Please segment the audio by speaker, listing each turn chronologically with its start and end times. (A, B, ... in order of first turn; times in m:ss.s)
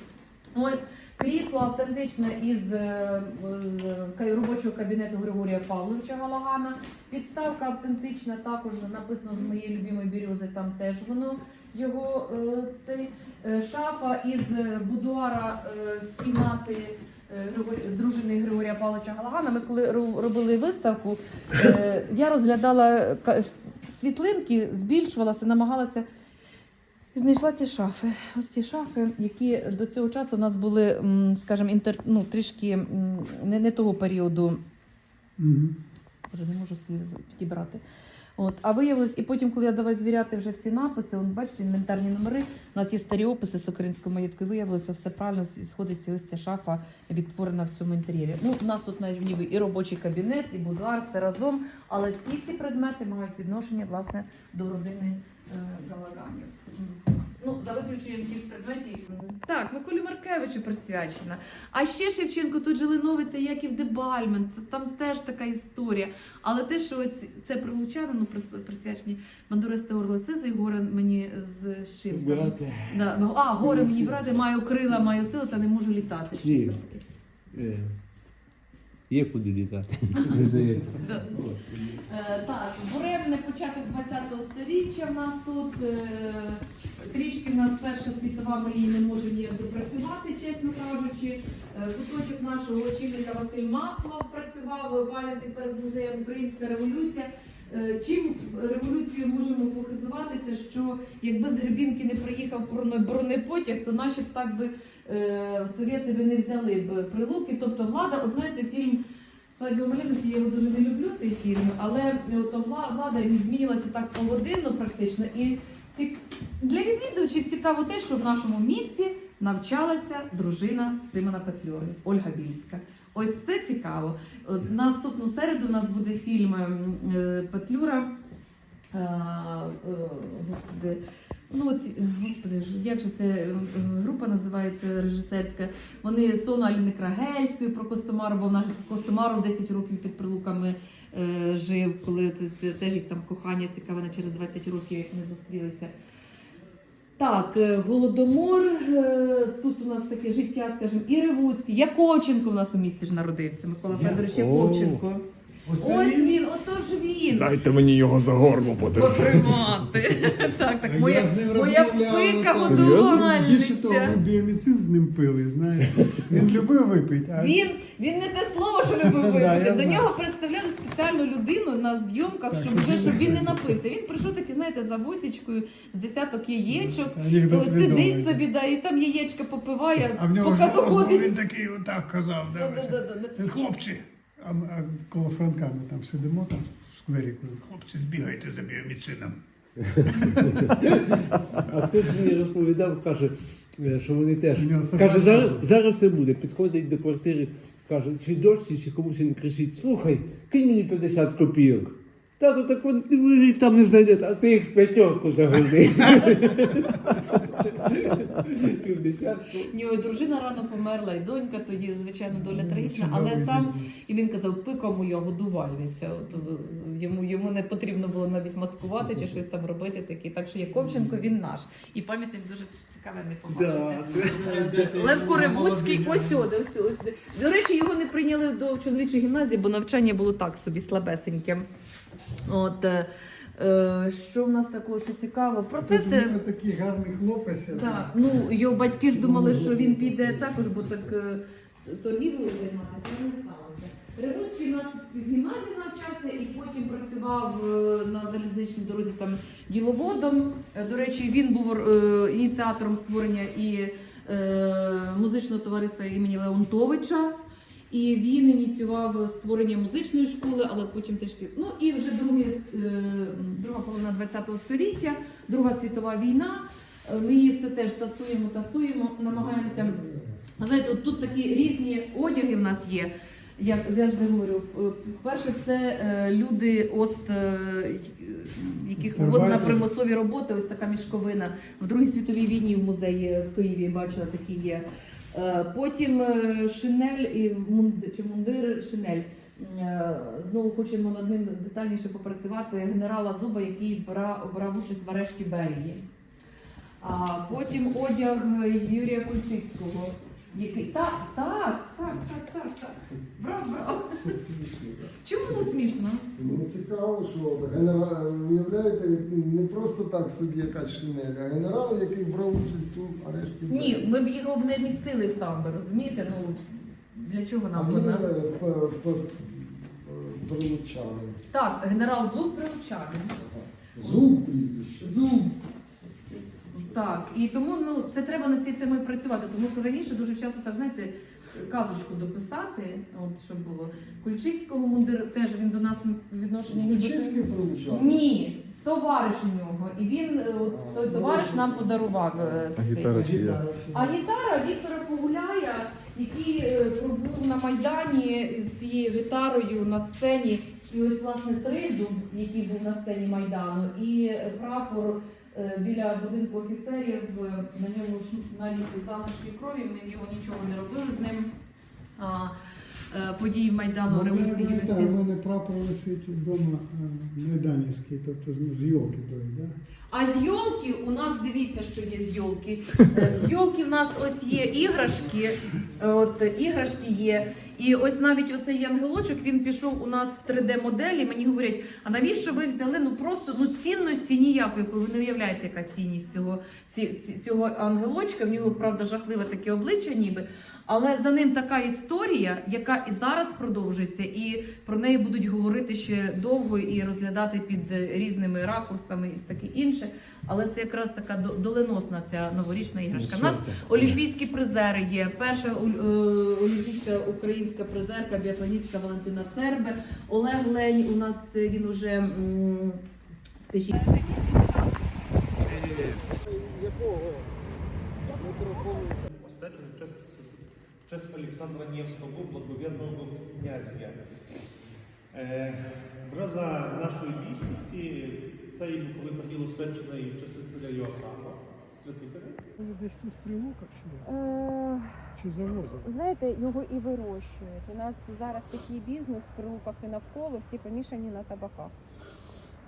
0:00.5-0:26.0 A
0:27.1-0:34.6 A
0:35.4-0:35.7 B
0:36.3-0:37.8 A
0:38.4-1:17.0 A
1:12.1-1:14.4 C
1:16.4-1:16.8 C
1:17.5-1:18.0 C
1:19.1-1:22.0 C
1:20.2-1:20.5 A
1:21.0-1:21.4 A
1:22.0-1:49.0 A
1:49.5-2:08.1 A
2:08.9-2:25.9 A
2:27.2-2:35.2 A
2:34.0-2:35.0 D
2:35.7-2:36.4 B
2:35.8-2:37.6 A
2:37.3-2:39.8 D
2:38.9-2:44.2 A
2:40.8-2:47.6 B
2:42.6-2:43.3 D
2:47.4-3:01.3 A
2:49.0-2:50.1 B
2:52.5-2:53.7 B
2:56.7-2:58.4 B
3:00.1-3:09.4 B
3:02.5-3:03.4 A
3:10.0-3:10.7 B
3:11.6-3:29.7 C
3:14.6-3:15.6 B
3:29.7-3:51.7 A
3:32.3-3:33.9 B
3:40.9-3:41.2 B
3:43.5-3:46.5 B
3:52.4-3:56.4 A
3:55.8-4:01.1 B
3:57.7-4:17.4 A
4:17.9-4:30.0 A
4:29.3-4:31.2 E
4:30.6-4:56.0 A
4:39.0-4:39.9 B
4:57.0-5:04.4 A
5:04.2-5:05.7 E
5:05.2-5:06.3 A
5:06.4-5:14.1 E
5:13.7-5:18.3 A
5:17.7-5:21.4 E
5:21.5-5:23.4 A
5:23.4-5:25.3 E
5:25.0-5:25.6 A
5:26.0-5:27.2 E
5:26.7-5:43.4 A
5:36.7-5:38.2 E
5:40.6-5:42.7 E
5:42.8-5:43.6 D
5:43.1-5:44.2 B
5:43.9-6:01.5 A
6:02.2-6:02.5 A
6:03.1-6:05.2 A
6:04.1-6:09.7 B
6:10.1-6:53.0 A
6:43.1-6:44.2 C
6:53.6-6:54.9 A
6:55.6-6:56.2 F
6:55.9-6:57.6 E
6:58.3-6:59.2 E
6:58.4-6:59.0 G
6:59.3-7:04.3 F
7:05.3-7:12.6 F
7:12.8-7:14.3 B
7:14.2-7:15.3 G
7:15.4-7:16.1 B
7:16.0-7:21.9 G